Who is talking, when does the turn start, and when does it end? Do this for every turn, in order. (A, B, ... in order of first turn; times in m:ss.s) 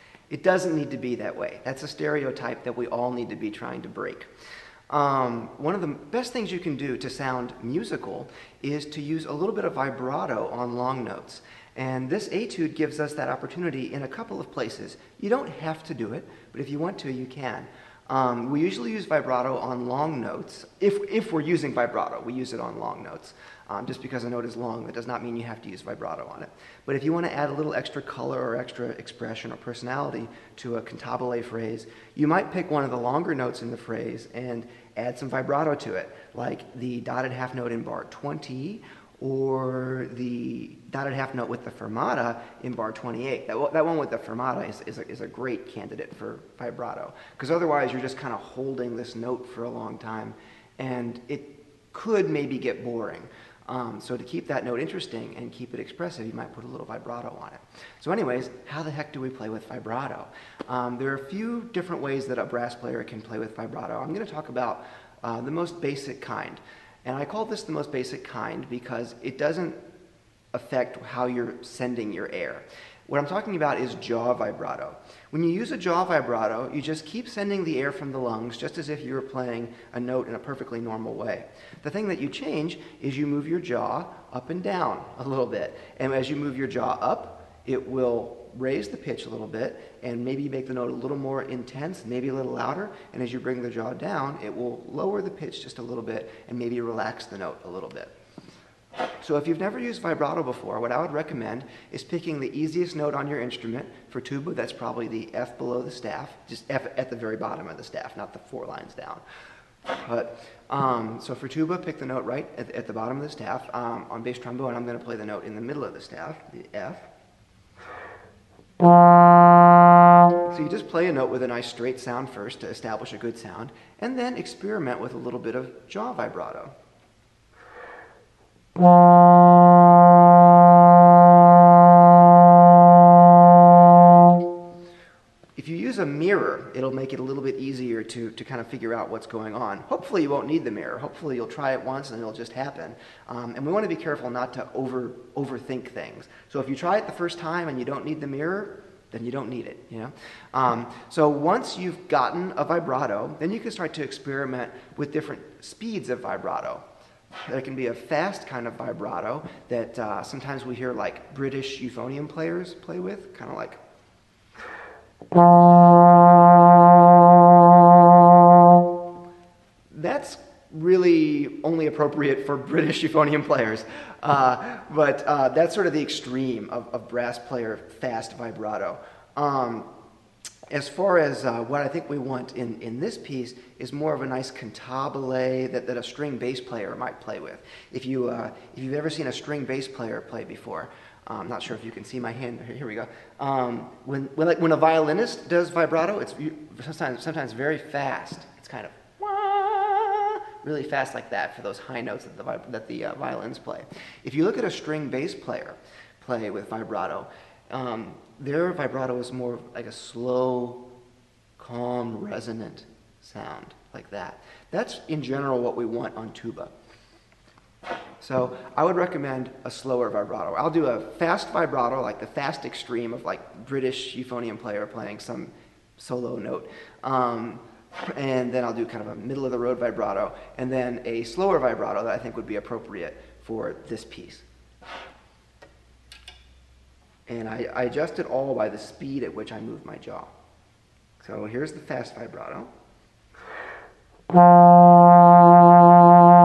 0:00.3-0:04.3 A
0:04.9-1:09.8 A
1:10.5-1:38.1 A
1:39.2-1:49.2 A
1:49.9-1:57.1 A
2:00.5-2:06.7 A
2:15.6-2:36.8 A
2:37.4-2:43.8 A
2:49.9-2:59.9 A
3:00.7-3:30.8 A
3:31.6-3:36.7 A
3:38.2-3:54.4 A
3:57.3-4:00.3 A
4:01.2-4:02.7 A